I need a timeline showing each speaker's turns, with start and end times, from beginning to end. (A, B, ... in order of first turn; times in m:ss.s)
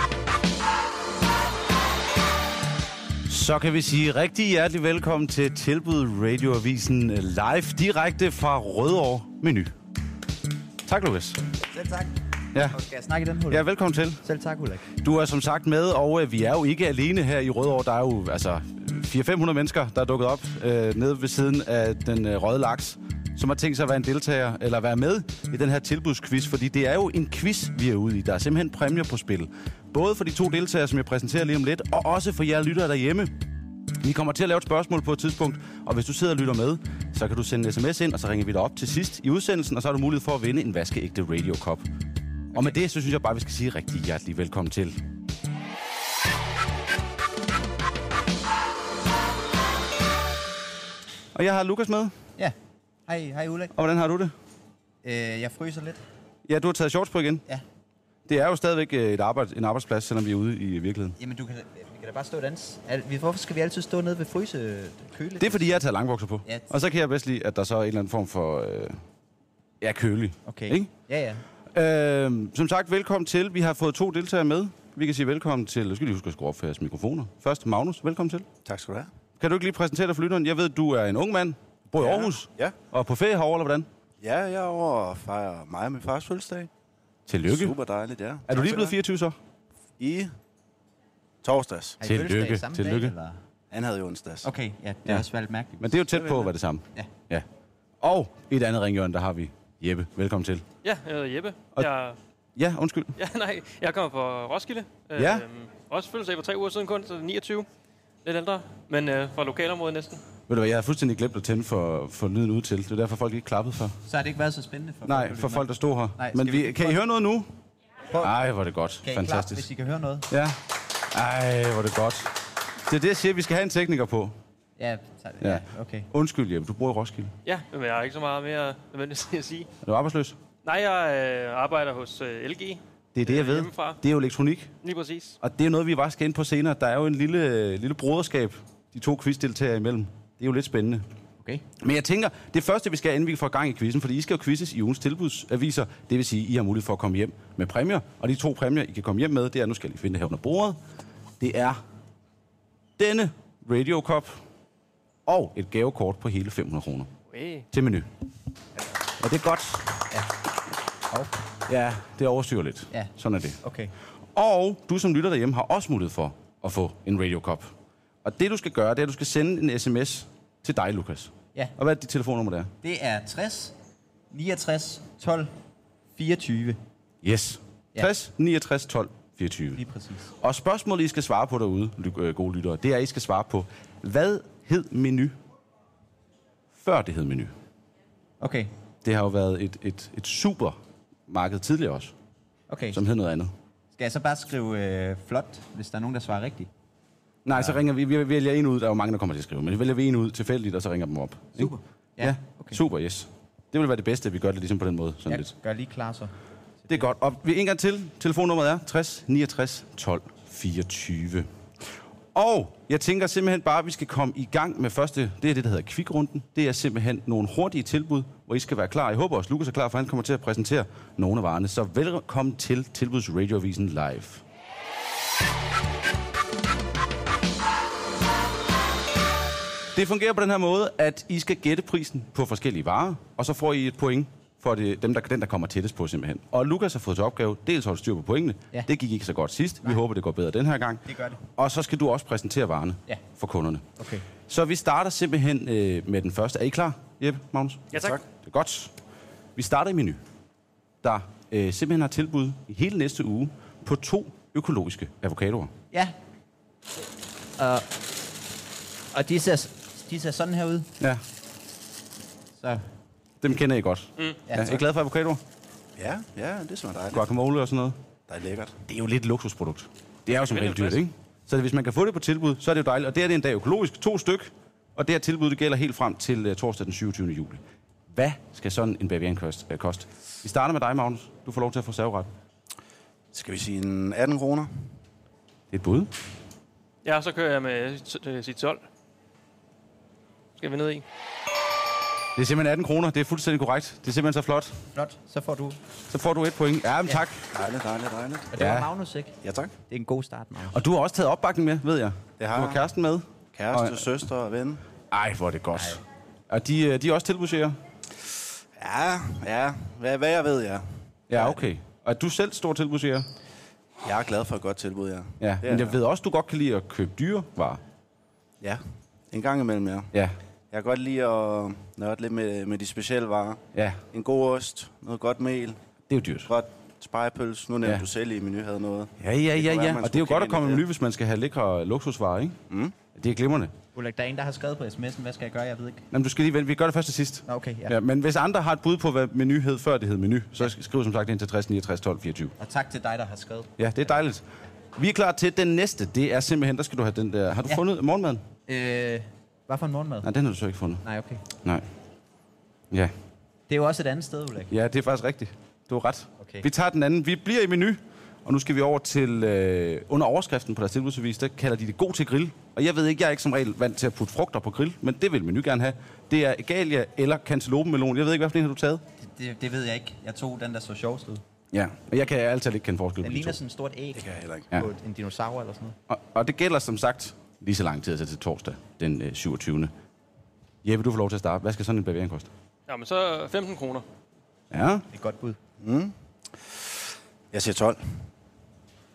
0:03.3-0:09.7 A
0:10.8-0:11.4 A
0:11.7-0:13.6 B
0:13.5-0:14.2 A
0:14.2-0:14.9 B
0:14.9-0:33.3 A
0:34.0-0:41.8 A
0:42.5-0:42.8 B
0:42.5-0:45.0 A
0:51.3-0:52.2 A
0:53.1-0:53.7 B
0:53.7-0:54.3 A
0:55.0-0:56.0 B
0:56.4-0:57.4 A
0:58.3-1:01.2 A
1:01.2-1:05.8 B
1:05.4-1:09.0 A
1:06.4-1:06.7 B
1:09.8-1:10.9 A
1:10.4-1:11.4 B
1:11.7-1:18.5 A
1:18.6-1:19.1 C
1:19.4-1:23.9 A
1:22.0-1:22.8 C
1:24.2-1:26.7 C
1:27.3-1:27.8 A
1:27.4-1:28.9 C
1:28.5-1:29.4 A
1:30.0-1:30.3 C
1:31.4-1:32.0 C
1:32.0-1:33.4 B
1:32.0-1:33.1 A
1:33.7-1:34.5 C
1:34.4-1:36.1 B
1:35.8-1:37.4 A
1:38.0-1:40.6 A
1:40.8-1:42.2 D
1:42.6-1:43.2 A
1:43.2-1:47.7 D
1:45.2-1:45.4 A
1:48.2-1:50.2 D
1:50.5-1:54.0 A
1:54.1-1:57.0 B
1:55.0-1:57.5 A
1:58.2-1:59.6 A
1:59.0-2:00.3 B
2:00.3-2:00.6 A
2:01.1-2:02.3 A
2:02.8-2:04.3 A
2:04.8-2:06.1 B
2:05.4-2:07.3 A
2:07.4-2:09.7 D
2:09.8-2:10.4 A
2:10.6-2:14.0 D
2:13.1-2:14.7 A
2:14.8-2:15.4 D
2:15.4-2:21.0 A
2:21.8-2:30.8 A
2:31.4-2:31.8 A
2:33.0-2:34.4 A
2:35.2-2:37.1 A
2:37.3-2:37.7 D
2:37.7-2:38.1 A
2:39.2-2:40.0 A
2:41.1-2:41.4 B
2:41.7-2:43.6 A
2:42.9-2:43.9 B
2:44.3-2:47.7 A
2:48.2-2:52.7 A
2:52.8-2:53.7 B
2:54.3-2:55.5 B
2:56.2-2:56.8 B
2:57.2-2:59.8 A
2:59.7-3:00.3 B
3:00.4-3:05.4 A
3:06.7-3:07.5 A
3:08.4-3:08.7 B
3:09.0-3:12.1 A
3:12.7-3:13.0 B
3:12.9-3:13.5 A
3:13.9-3:16.7 B
3:17.4-3:25.5 A
3:17.5-3:17.8 B
3:21.6-3:22.8 B
3:25.3-3:26.3 B
3:26.8-3:27.1 B
3:26.9-3:31.5 A
3:32.3-3:44.4 A
3:49.9-4:03.8 A
4:01.0-4:01.4 B
4:04.0-4:04.2 B
4:04.5-4:07.9 A
4:07.9-4:08.2 D
4:07.9-4:08.2 C
4:08.4-4:08.9 A
4:09.6-4:10.2 A
4:11.0-4:15.7 A
4:17.6-4:17.9 B
4:19.1-4:20.9 B
4:22.6-4:22.8 B
4:23.4-4:25.4 A
4:24.5-4:24.8 B
4:26.0-4:27.2 C
4:27.1-4:28.0 A
4:28.3-4:28.7 C
4:28.9-4:37.6 A
4:30.3-4:31.0 D
4:38.1-4:42.3 A
4:43.3-4:44.7 C
4:45.7-4:46.1 A
4:47.0-4:48.8 D
4:50.6-4:51.0 D
4:52.4-4:54.8 A
4:54.9-4:55.8 B
4:56.1-4:57.4 A
4:57.5-4:58.5 C
4:58.5-4:59.3 B
4:58.6-4:58.9 A
4:59.4-4:59.7 C
4:59.9-5:00.8 B
5:00.7-5:04.2 A
5:02.4-5:02.8 C
5:03.5-5:04.8 C
5:05.1-5:07.8 A
5:08.8-5:11.6 C
5:11.3-5:13.3 A
5:14.0-5:16.0 C
5:15.4-5:17.8 A
5:18.6-5:20.1 C
5:20.7-5:25.8 C
5:23.7-5:24.0 A
5:26.1-5:26.5 A
5:26.4-5:30.8 C
5:29.2-5:32.6 A
5:32.7-5:32.9 C
5:33.1-5:33.7 A
5:33.9-5:36.0 B
5:36.1-5:42.5 A
5:37.5-5:37.9 B
5:42.6-5:44.2 B
5:43.8-5:48.4 A
5:48.7-5:50.3 B
5:50.2-5:51.0 A
5:51.0-5:51.4 B
5:51.6-5:51.8 A
5:53.7-5:54.7 B
5:54.7-6:09.0 A
5:56.4-5:56.6 B
6:09.2-6:11.4 B
6:11.7-6:13.6 A
6:13.2-6:16.0 B
6:14.1-6:14.7 C
6:16.1-6:19.9 A
6:20.8-6:22.5 A
6:22.9-6:24.0 D
6:24.7-6:25.0 A
6:25.1-6:25.6 B
6:25.8-6:26.1 C
6:27.5-6:28.0 C